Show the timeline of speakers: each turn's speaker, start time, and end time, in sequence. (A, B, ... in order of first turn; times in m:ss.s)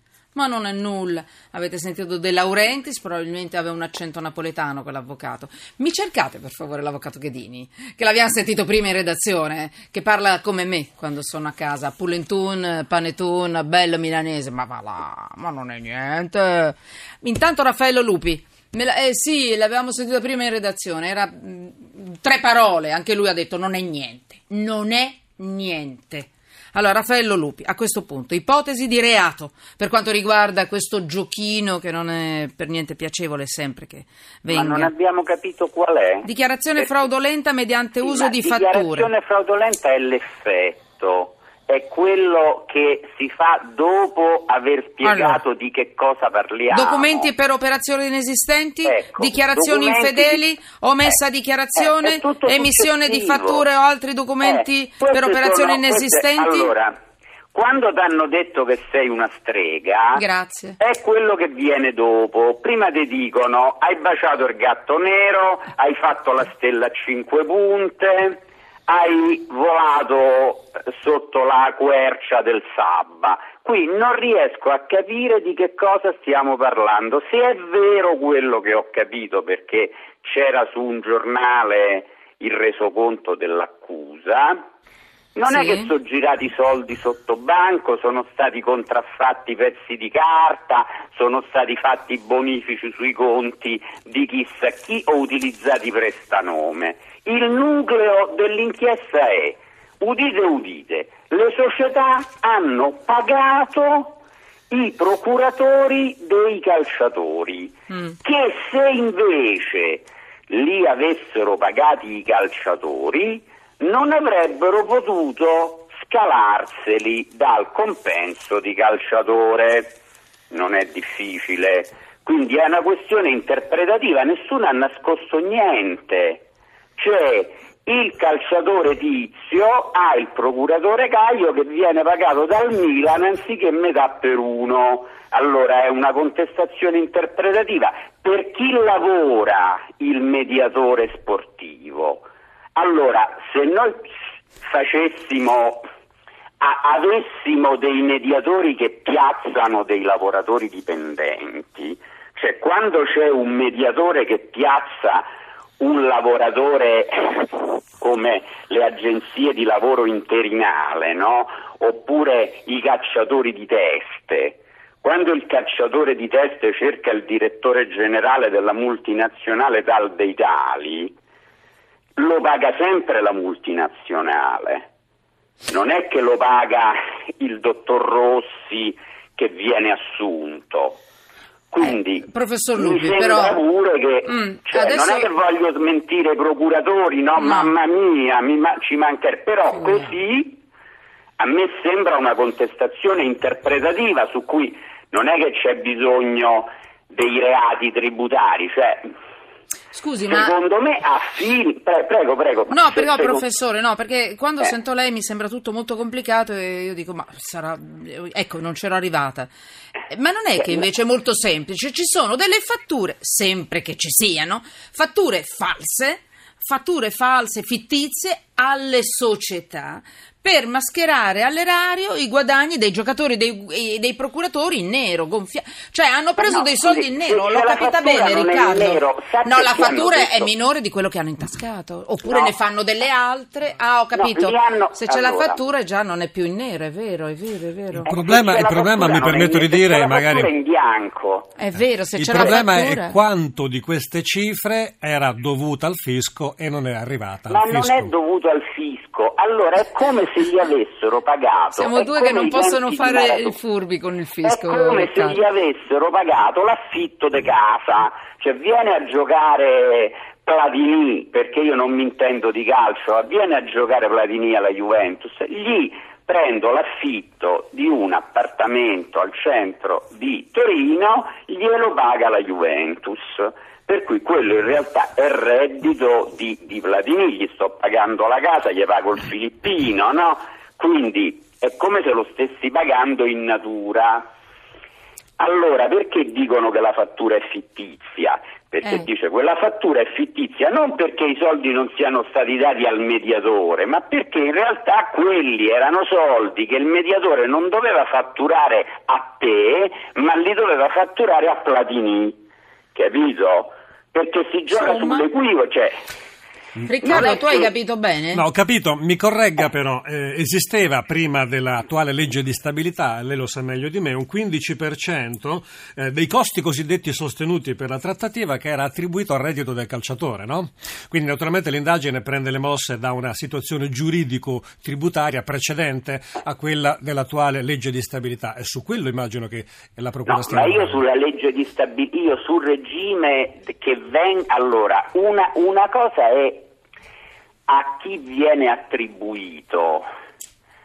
0:00.3-0:34.9 A
0:34.5-0:36.9 B
0:36.2-0:39.1 A
0:38.0-0:47.3 B
0:45.0-0:45.4 A
0:46.7-0:56.8 A
0:48.8-0:50.4 B
0:51.8-0:53.6 B
0:54.4-0:57.0 B
0:57.5-1:00.2 B
1:00.1-1:00.8 A
1:00.8-1:24.6 B
1:25.4-1:44.2 B
1:25.5-1:25.9 A
1:44.7-1:59.9 B
1:47.9-1:48.1 A
2:00.5-2:06.4 B
2:07.0-2:25.9 B
2:26.6-2:35.3 B
2:35.8-2:51.1 B
2:52.2-2:54.9 B
2:55.7-3:01.0 B
3:01.7-3:10.6 B
3:01.8-3:03.6 A
3:04.2-3:05.3 A
3:07.4-3:07.7 A
3:09.7-3:10.1 A
3:11.4-3:19.1 B
3:19.9-3:20.6 A
3:20.3-3:23.4 B
3:22.7-3:29.5 A
3:30.1-3:58.1 A
3:46.4-3:50.5 B
3:52.2-3:52.5 B
3:54.1-3:55.6 B
3:57.9-4:00.5 C
3:58.1-4:01.6 B
4:01.6-4:03.2 A
4:02.2-4:08.1 C
4:07.5-4:13.6 B
4:11.8-4:15.4 A
4:14.4-4:44.3 B
4:45.4-5:02.4 B
5:02.9-5:06.0 B
5:04.7-5:05.2 A
5:06.8-5:08.4 A
5:07.0-5:07.7 B
5:08.3-5:31.0 C
5:30.2-5:36.7 B
5:37.7-5:40.1 B